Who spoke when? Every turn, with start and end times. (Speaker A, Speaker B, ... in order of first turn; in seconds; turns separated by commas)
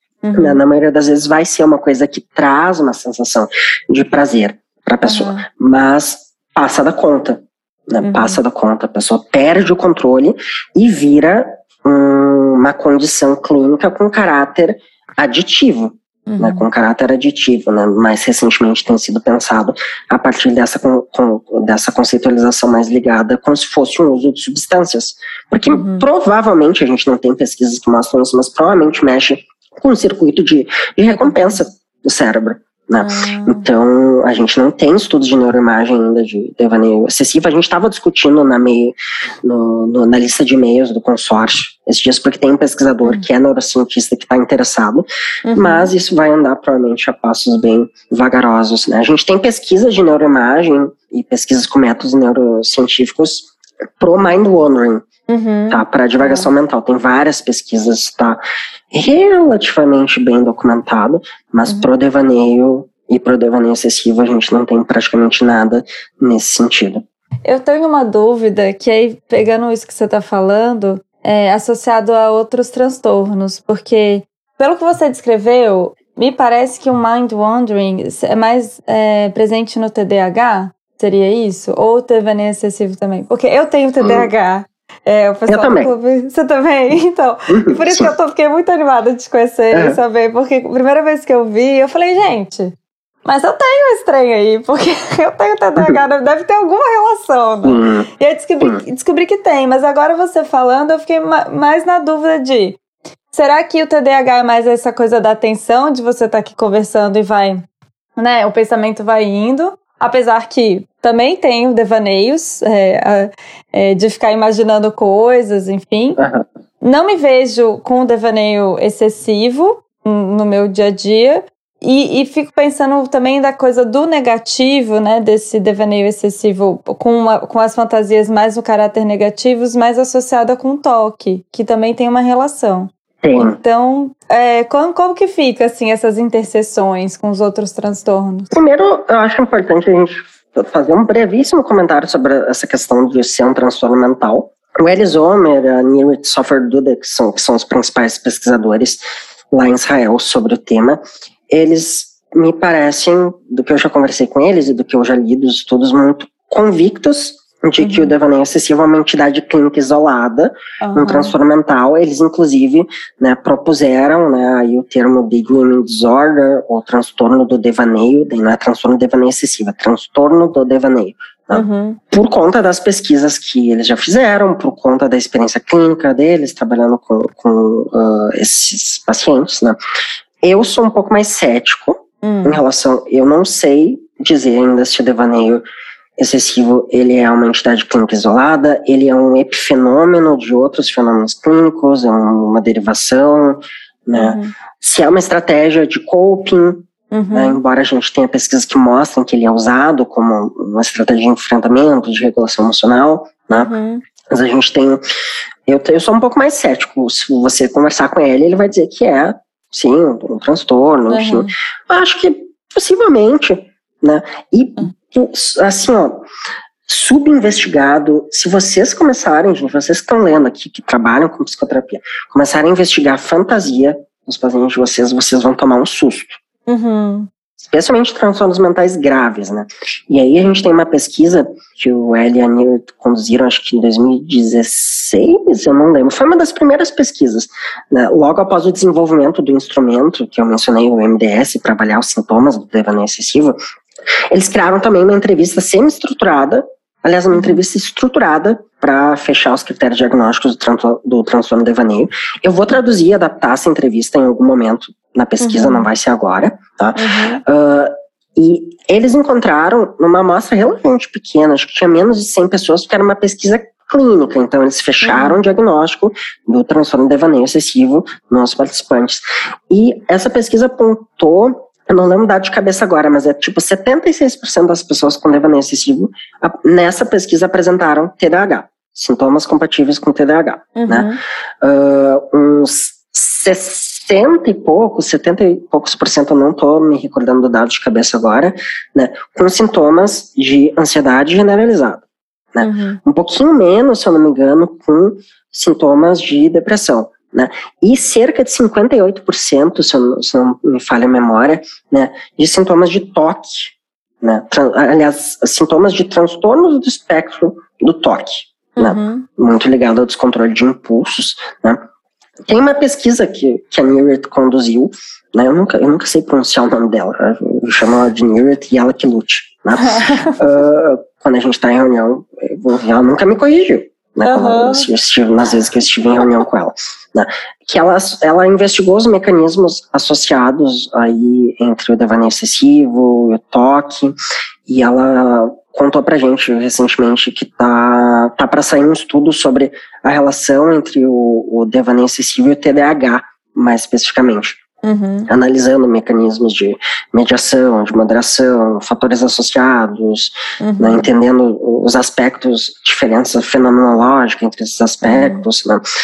Speaker A: 0.2-0.6, Speaker B: 0.3-55.1, Speaker A: 5.0-5.5, Speaker A: 8.0-8.4, Speaker A: 16.3-16.6, Speaker A: 25.7-26.1, Speaker A: 31.1-31.6, Speaker A: 33.0-33.7, Speaker A: 45.5-45.9, Speaker A: 55.3-56.5, Speaker B: 55.7-67.0, Speaker A: 67.5-92.7, Speaker B: 84.0-84.3, Speaker B: 85.5-85.9, Speaker B: 87.5-88.1, Speaker B: 89.7-90.0, Speaker A: 93.2-102.8, Speaker B: 97.6-98.1, Speaker A: 103.3-107.6, Speaker A: 108.2-116.2, Speaker B: 116.2-116.5, Speaker A: 116.8-138.5, Speaker B: 133.2-133.6, Speaker B: 138.5-179.8, Speaker A: 157.8-158.1, Speaker A: 160.8-161.3, Speaker A: 171.5-172.0, Speaker B: 180.4-185.7, Speaker A: 182.2-182.6, Speaker B: 186.2-203.7, Speaker A: 194.2-194.5, Speaker A: 197.1-197.6, Speaker A: 203.5-204.0, Speaker B: 204.3-205.0, Speaker B: 205.7-216.3, Speaker A: 211.1-211.5, Speaker B: 216.9-226.4, Speaker A: 226.7-227.3, Speaker B: 227.6-243.6, Speaker B: 244.3-281.1, Speaker A: 247.3-247.6, Speaker A: 255.4-255.9, Speaker A: 257.0-257.4, Speaker A: 265.0-265.4, Speaker A: 280.8-281.2, Speaker B: 281.6-292.0, Speaker B: 292.5-311.8, Speaker A: 292.6-293.0, Speaker A: 308.8-309.3, Speaker B: 312.5-344.6, Speaker A: 319.8-320.4, Speaker A: 324.2-324.9, Speaker A: 344.8-345.3, Speaker B: 345.3-355.8, Speaker A: 350.6-351.1, Speaker A: 355.0-355.4